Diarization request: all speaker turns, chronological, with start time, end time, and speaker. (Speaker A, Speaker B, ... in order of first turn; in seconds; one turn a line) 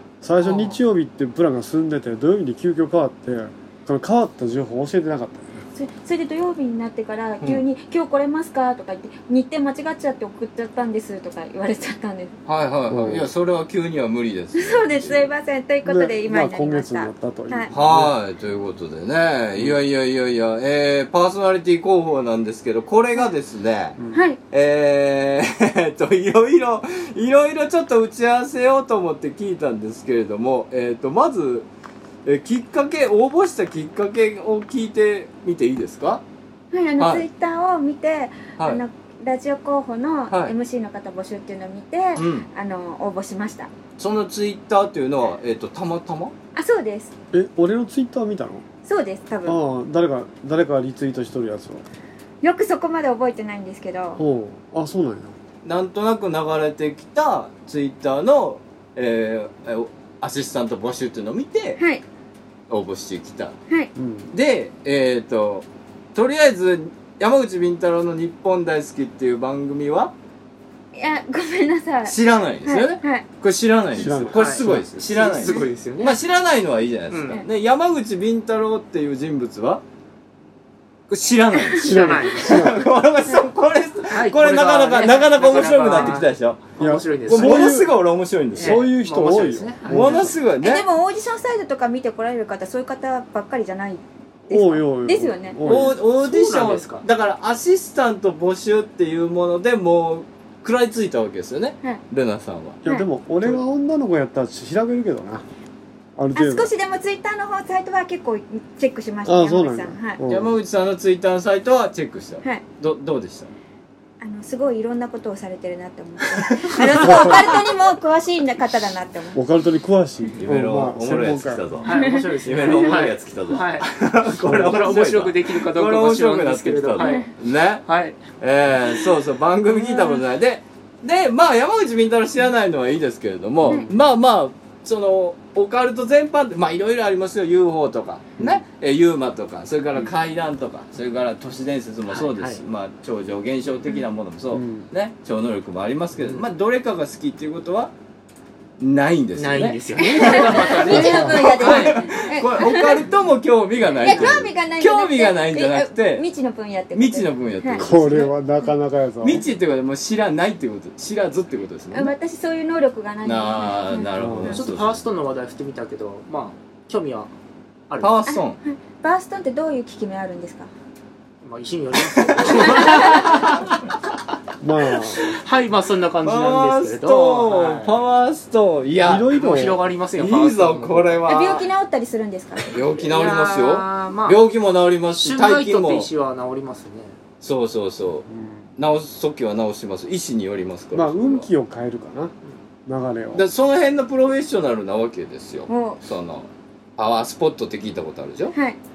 Speaker A: 0.2-5.6
Speaker B: 0.4-0.8
Speaker C: 5.8-12.3
Speaker B: 12.5-15.3
Speaker A: 12.9-13.3
Speaker C: 14.6-17.7
Speaker A: 15.8-18.1
Speaker B: 17.7-24.0
Speaker A: 24.0-24.2
Speaker C: 24.1-24.4
Speaker B: 24.5-31.7
Speaker B: 32.2-36.2
Speaker C: 36.7-43.7
Speaker B: 37.0-37.2
Speaker B: 42.2-42.5
Speaker B: 44.0-46.3
Speaker C: 46.5-47.1
Speaker A: 47.3-48.6
Speaker C: 48.9-49.6
Speaker A: 49.5-51.9
Speaker C: 52.4-54.2
Speaker A: 54.2-55.4
Speaker B: 55.6-61.8
Speaker C: 61.8-62.0
Speaker B: 62.7-63.6
Speaker A: 64.0-64.3
Speaker B: 64.3-70.1
Speaker C: 70.9-72.2
Speaker B: 72.1-79.8
Speaker C: 72.7-73.2
Speaker A: 73.9-74.9
Speaker D: 74.3-76.2
Speaker D: 77.1-77.4
Speaker B: 81.1-86.6
Speaker D: 81.8-82.7
Speaker A: 81.8-82.9
Speaker D: 84.1-87.8
Speaker C: 85.9-86.2
Speaker A: 86.8-87.9
Speaker B: 87.3-88.9
Speaker A: 88.5-90.3
Speaker D: 88.5-90.4
Speaker B: 89.8-90.8
Speaker C: 90.6-95.6
Speaker A: 94.5-96.0
Speaker B: 95.6-102.8
Speaker D: 95.7-97.0
Speaker A: 102.8-105.5
Speaker A: 106.2-106.7
Speaker C: 106.4-110.2
Speaker A: 109.2-110.6
Speaker B: 110.3-113.5
Speaker C: 114.2-119.4
Speaker B: 116.6-116.9
Speaker A: 117.0-117.5
Speaker A: 119.3-121.7
Speaker B: 120.4-127.9
Speaker D: 121.8-127.3
Speaker C: 121.9-122.3
Speaker A: 124.5-124.8
Speaker C: 127.0-127.3
Speaker D: 127.9-128.2
Speaker B: 128.4-147.9
Speaker D: 142.1-142.6
Speaker A: 144.5-144.9
Speaker D: 146.2-146.4
Speaker B: 148.8-156.2
Speaker D: 149.4-152.1
Speaker C: 150.0-153.1
Speaker A: 151.0-151.4
Speaker D: 154.0-154.4
Speaker C: 154.0-157.8
Speaker B: 156.9-158.3
Speaker A: 157.8-159.4
Speaker B: 159.2-162.1
Speaker C: 161.9-164.1
Speaker B: 163.2-165.0
Speaker A: 164.2-164.6
Speaker D: 164.5-167.3
Speaker D: 167.9-168.2
Speaker B: 168.0-168.6
Speaker C: 168.3-170.7
Speaker D: 171.4-173.8
Speaker B: 172.2-173.4
Speaker A: 174.6-175.3
Speaker D: 175.2-177.9
Speaker B: 176.2-181.7
Speaker A: 179.0-179.8
Speaker D: 179.3-181.2
Speaker C: 181.3-182.8
Speaker B: 182.7-186.1
Speaker D: 183.0-184.4
Speaker D: 185.1-187.2
Speaker B: 187.4-191.5
Speaker A: 188.3-188.7
Speaker A: 190.9-192.3
Speaker A: 192.9-193.5
Speaker B: 193.3-198.6
Speaker C: 195.7-196.0
Speaker C: 198.5-198.8